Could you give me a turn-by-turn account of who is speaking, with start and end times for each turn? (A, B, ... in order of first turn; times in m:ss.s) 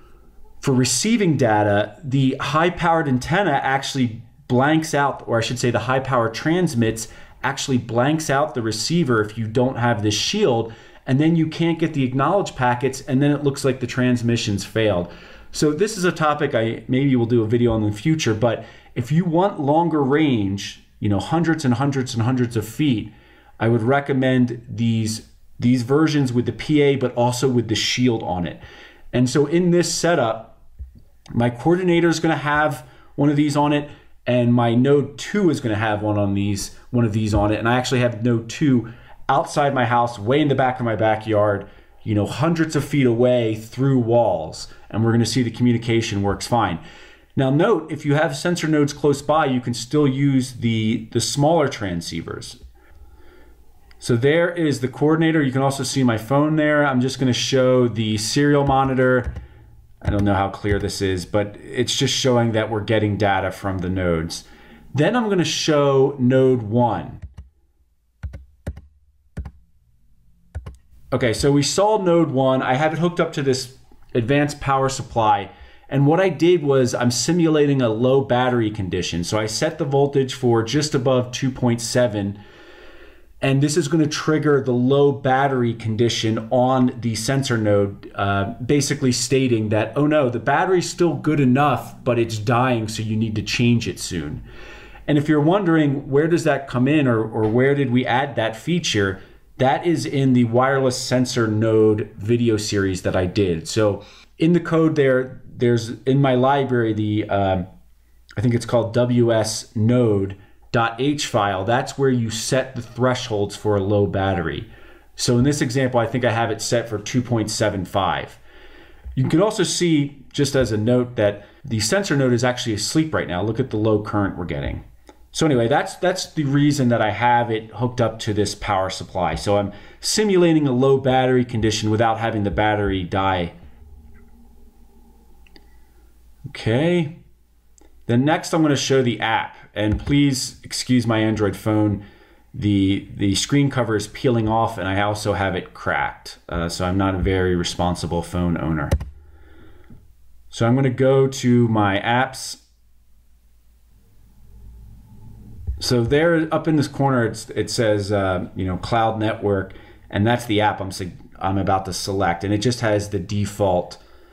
0:00.6-0:28.6 A
0:29.1-0:30.6 A
0:31.3-0:46.8 A
0:47.4-0:52.6 A
0:54.0-0:59.3 A
1:00.0-1:07.2 A
1:11.1-1:22.4 A
1:23.4-1:34.4 A
1:35.1-1:47.6 A
1:48.4-1:58.4 A
1:59.2-2:13.5 A
2:16.4-2:17.1 A
2:18.1-2:22.0 A
2:22.5-2:28.9 A
2:30.5-2:32.6 A
2:35.8-2:44.0 A